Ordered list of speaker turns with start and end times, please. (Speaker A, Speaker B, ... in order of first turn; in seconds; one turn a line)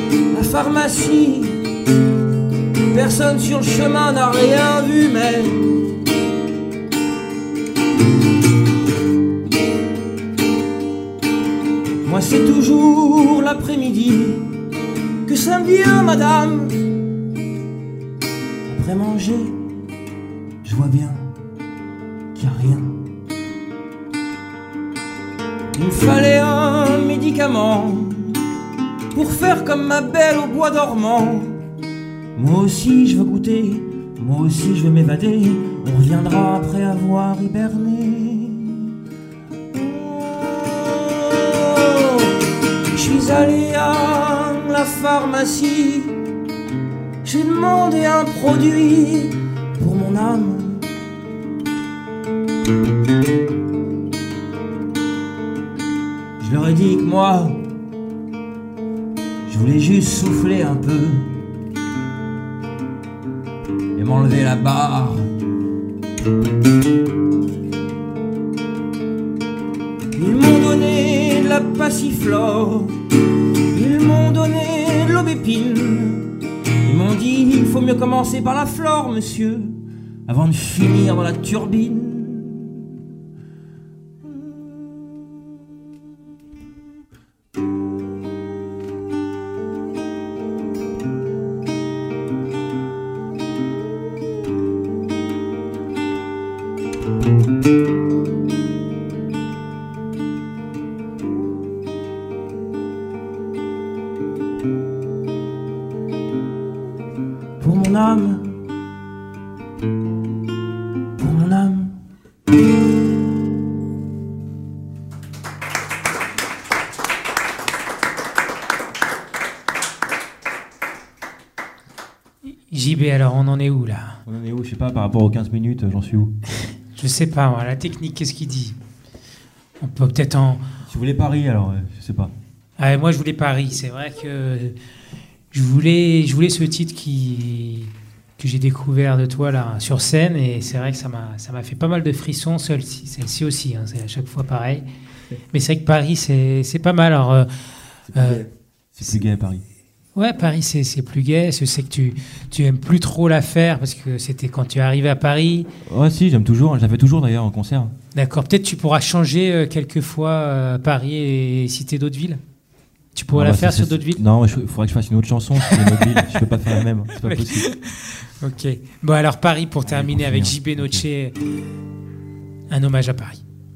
Speaker A: 0.3-1.6
Speaker A: 2.9-5.7
Speaker A: 12.0-14.5
Speaker A: 15.3-16.8
Speaker A: 18.7-19.6
Speaker A: 20.6-21.3
Speaker A: 22.4-23.0
Speaker A: 25.8-28.4
Speaker A: 29.1-31.6
Speaker A: 32.4-38.9
Speaker A: 39.7-42.1
Speaker A: 42.9-46.1
Speaker A: 47.2-50.9
Speaker A: 56.4-57.6
Speaker A: 59.5-61.4
Speaker A: 64.0-65.3
Speaker A: 70.1-73.0
Speaker A: 73.7-76.3
Speaker A: 76.8-82.7
Speaker A: 107.6-108.6
Speaker A: 111.2-112.0
Speaker B: 122.7-124.2
Speaker C: 124.2-126.3
Speaker B: 126.9-128.8
Speaker B: 129.8-130.6
Speaker C: 130.9-132.3
Speaker B: 132.8-134.8
Speaker B: 135.5-144.9
Speaker B: 145.5-147.5
Speaker C: 148.1-149.6
Speaker B: 148.2-148.4
Speaker B: 150.2-155.7
Speaker C: 155.9-157.9
Speaker B: 158.1-162.4
Speaker B: 163.2-164.2
Speaker C: 163.3-167.7
Speaker B: 165.6-166.5
Speaker B: 167.1-171.4
Speaker C: 169.8-171.1
Speaker B: 172.7-173.4